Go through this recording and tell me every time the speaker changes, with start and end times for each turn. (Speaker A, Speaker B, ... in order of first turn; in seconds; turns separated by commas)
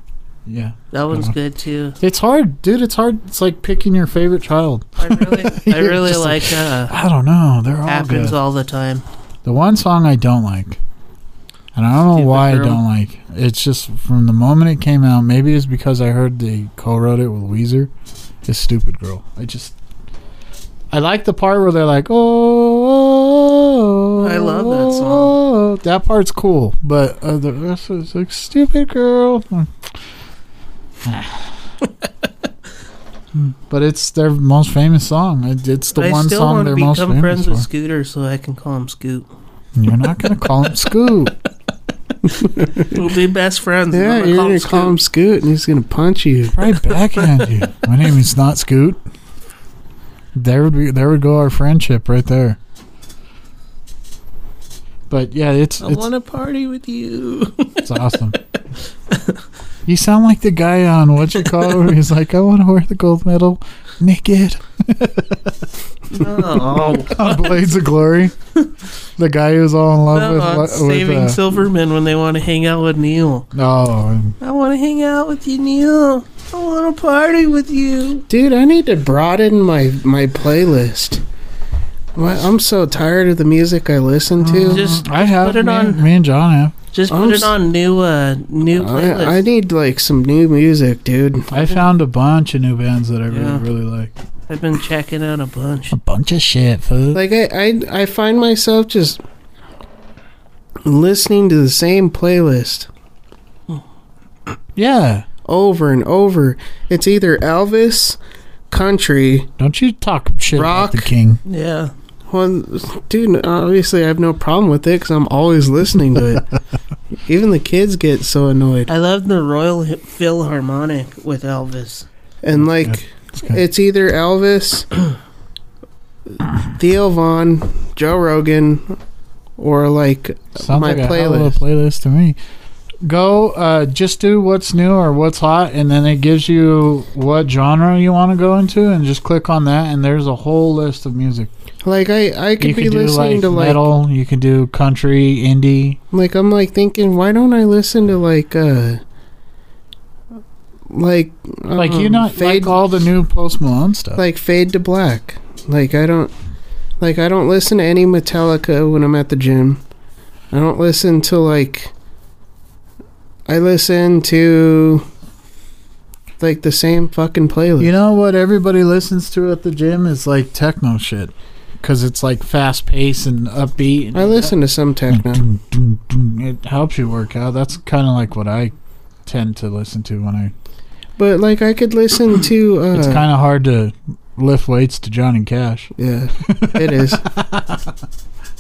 Speaker A: 0.5-1.4, Speaker B: 0.9-2.0, Speaker A: 2.0-8.4, Speaker B: 5.0-6.9, Speaker B: 7.9-9.0, Speaker A: 9.4-10.8, Speaker A: 11.8-17.9, Speaker B: 12.1-12.8, Speaker A: 18.4-19.7, Speaker A: 20.9-29.8, Speaker B: 24.2-25.4, Speaker A: 31.0-31.5, Speaker A: 33.4-37.7, Speaker B: 36.0-39.3, Speaker A: 39.8-41.4, Speaker C: 42.3-43.0, Speaker B: 42.8-45.0, Speaker C: 43.9-46.6, Speaker A: 46.5-49.0, Speaker B: 47.1-47.4, Speaker A: 50.4-52.6, Speaker A: 55.1-56.1, Speaker B: 55.8-57.9, Speaker A: 57.9-58.4, Speaker B: 59.1-59.4, Speaker A: 59.9-68.3, Speaker B: 66.1-67.6, Speaker A: 69.2-71.4, Speaker B: 70.1-73.5, Speaker A: 73.5-74.4, Speaker B: 74.4-78.2, Speaker C: 78.3-81.2, Speaker C: 82.2-84.9, Speaker A: 84.4-86.8, Speaker B: 84.7-86.1, Speaker B: 86.9-89.4, Speaker C: 87.1-87.5, Speaker C: 88.7-91.6, Speaker A: 91.5-94.1, Speaker B: 93.3-93.7, Speaker B: 94.5-96.0, Speaker A: 95.9-97.2, Speaker C: 97.1-99.2, Speaker C: 100.8-102.9, Speaker A: 104.8-105.3, Speaker C: 105.5-108.2, Speaker C: 108.7-109.5, Speaker A: 109.6-111.4, Speaker C: 110.5-111.1, Speaker B: 111.5-111.9, Speaker C: 112.3-116.5, Speaker C: 117.3-118.9, Speaker B: 118.9-122.1, Speaker C: 122.4-125.0, Speaker A: 122.6-123.6, Speaker C: 126.7-129.0, Speaker C: 129.6-131.6, Speaker A: 130.6-132.4, Speaker A: 133.0-141.5, Speaker C: 141.8-143.8, Speaker A: 142.6-146.0, Speaker C: 146.1-149.0, Speaker C: 150.9-152.8, Speaker A: 151.8-154.2, Speaker C: 154.2-156.3, Speaker C: 157.0-159.8, Speaker C: 160.5-161.9, Speaker C: 163.5-165.1, Speaker C: 166.4-167.9, Speaker A: 167.8-174.6, Speaker C: 174.1-175.4, Speaker A: 175.1-178.7, Speaker A: 179.3-180.5, Speaker C: 181.2-183.2, Speaker A: 182.9-187.9, Speaker C: 186.0-187.3